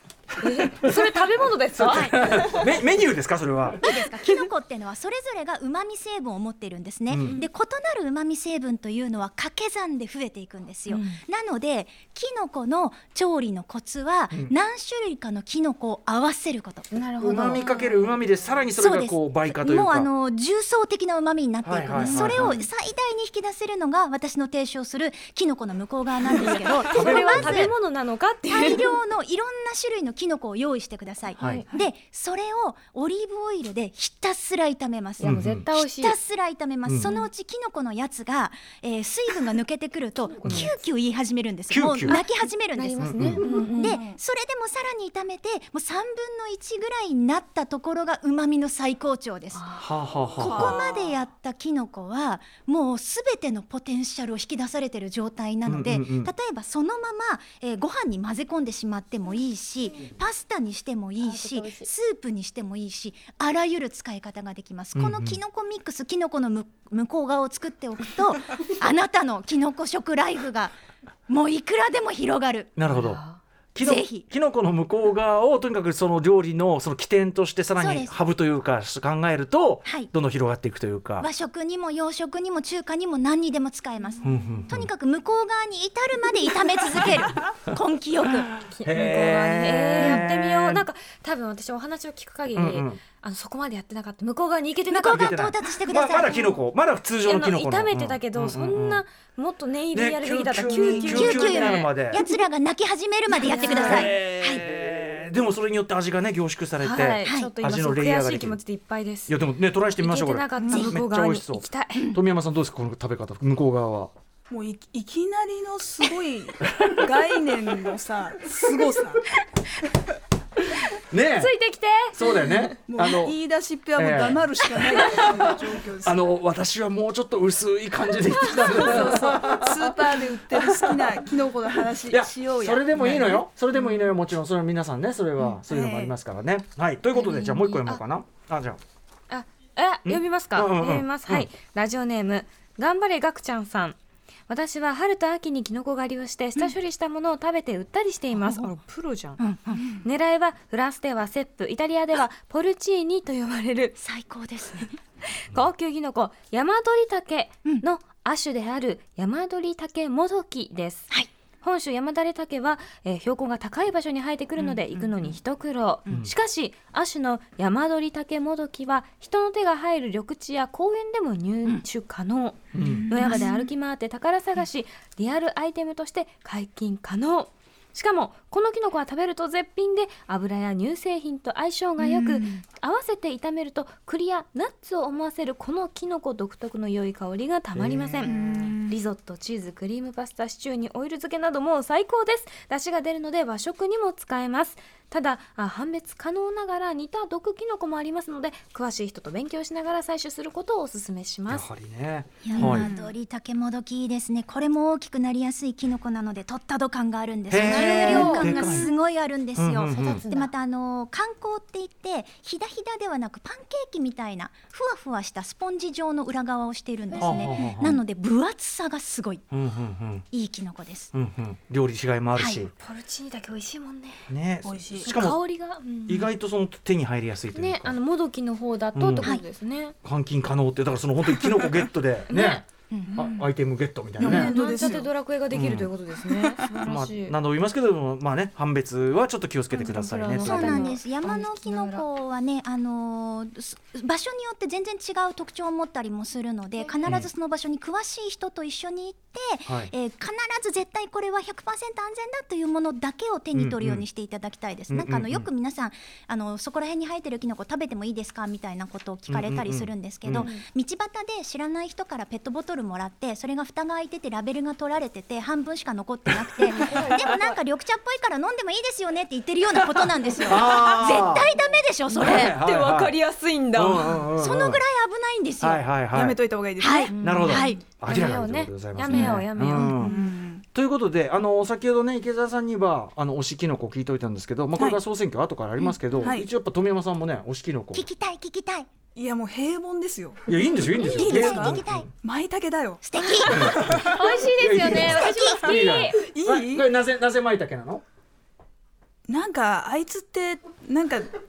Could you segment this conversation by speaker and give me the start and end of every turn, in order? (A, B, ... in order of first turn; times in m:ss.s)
0:00.4-0:02.6 A
0:01.8-0:03.8 B
0:01.9-0:02.6 C
0:03.8-0:17.0 C
0:07.1-0:07.4 B
0:10.9-0:11.2 A
0:16.9-0:18.2 A
0:17.2-0:20.1 B
0:18.8-0:27.8 C
0:21.6-0:22.6 B
0:21.9-0:22.4 A
0:26.4-0:28.9 A
0:26.9-0:27.7 B
0:28.5-0:49.7 C
0:31.4-0:31.6 A
0:31.4-0:31.6 B
0:35.2-0:36.2 A
0:35.2-0:35.7 B
0:36.8-0:37.1 B
0:40.4-0:40.8 A
0:41.7-0:42.2 B
0:42.0-0:44.0 A
0:43.0-0:43.4 B
0:43.4-0:44.2 D
0:49.5-0:49.9 A
0:49.8-0:50.8 B
0:50.4-0:51.2 D
0:50.4-1:10.8 C
0:55.6-0:56.3 B
1:01.2-1:01.9 A
1:04.9-1:05.4 B
1:11.3-1:12.7 C
1:12.8-1:13.2 B
1:12.9-1:13.4 A
1:13.7-1:21.3 B
1:13.8-1:14.2 C
1:17.8-1:18.1 C
1:19.8-1:20.1 C
1:21.2-1:28.5 C
1:24.2-1:24.9 B
1:28.7-1:30.9 B
1:28.7-1:35.3 A
1:30.0-1:30.2 C
1:32.5-1:33.0 B
1:34.9-1:36.6 C
1:35.1-1:39.0 B
1:37.2-1:41.8 A
1:39.9-1:42.2 B
1:40.8-1:44.6 C
1:43.3-1:44.1 A
1:43.6-1:48.6 B
1:46.8-1:49.4 A
1:47.2-1:47.5 C
1:49.3-1:54.1 B
1:50.0-1:52.1 A
1:50.7-1:51.0 C
1:54.5-1:59.3 D
2:01.1-2:01.5 B
2:01.4-2:02.7 A
2:02.1-2:03.4 B
2:02.9-2:06.2 D
2:03.9-2:11.1 B
2:08.5-2:13.3 D
2:11.9-2:18.8 B
2:13.0-2:14.0 A
2:15.6-2:16.1 D
2:17.1-2:18.0 A
2:19.3-2:24.0 A
2:20.0-2:21.5 B
2:24.5-2:34.0 A
2:28.4-2:28.7 C
2:29.4-2:30.0 C
2:34.0-2:34.9 C
2:35.4-2:41.1 A
2:41.6-3:21.7 A
2:44.6-2:45.3 C
2:52.7-2:53.3 B
2:52.8-2:53.7 C
3:07.7-3:08.4 B
3:08.2-3:08.9 D
3:21.5-3:22.9 B
3:22.4-3:39.4 C
3:22.6-3:22.9 A
3:27.5-3:28.9 B
3:27.6-3:28.9 A
3:29.5-3:30.2 B
3:29.8-3:30.5 A
3:37.1-3:37.8 A
3:37.2-3:38.0 B
3:39.5-3:40.2 B
3:40.3-3:41.1 C
3:41.1-3:42.7 B
3:42.4-3:42.6 C
3:42.8-3:44.2 A
3:44.3-3:45.4 B
3:44.6-3:45.1 D
3:45.0-3:46.3 A
3:46.0-3:48.0 B
3:47.5-3:50.0 A
3:48.9-3:49.3 B
3:50.0-3:52.6 B
3:52.3-3:52.6 A
3:52.3-3:53.5 C
3:53.1-3:54.5 B
3:54.2-3:55.1 D
3:54.2-3:57.4 A
3:55.5-3:55.9 B
3:56.3-3:56.6 D
3:56.8-4:00.9 B
3:59.7-4:02.0 A
4:00.4-4:32.6 C
4:06.8-4:07.1 A
4:07.0-4:07.3 B
4:13.5-4:14.0 B
4:14.9-4:15.5 B
4:19.3-4:20.5 B
4:20.4-4:20.6 A
4:26.7-4:27.6 A
4:30.5-4:31.5 B
4:32.1-4:34.3 A
4:32.2-4:33.2 B
4:33.7-4:34.8 B
4:34.4-4:35.8 C
4:35.6-4:36.4 B
4:36.1-4:37.1 D
4:36.8-4:37.8 C
4:37.1-4:40.0 A
4:37.2-4:40.2 B
4:40.0-4:40.6 D
4:40.7-4:48.1 B
4:44.7-4:45.0 D
4:46.1-4:46.5 D
4:47.9-4:48.9 C
4:49.2-4:50.4 D
4:50.5-4:52.1 B
4:50.9-4:52.1 C
4:51.1-4:54.3 D
4:53.0-4:54.0 C
4:53.5-4:58.0 B
4:54.0-4:56.2 A
4:55.1-4:55.7 C
4:56.1-4:56.9 D
4:59.3-5:01.3 D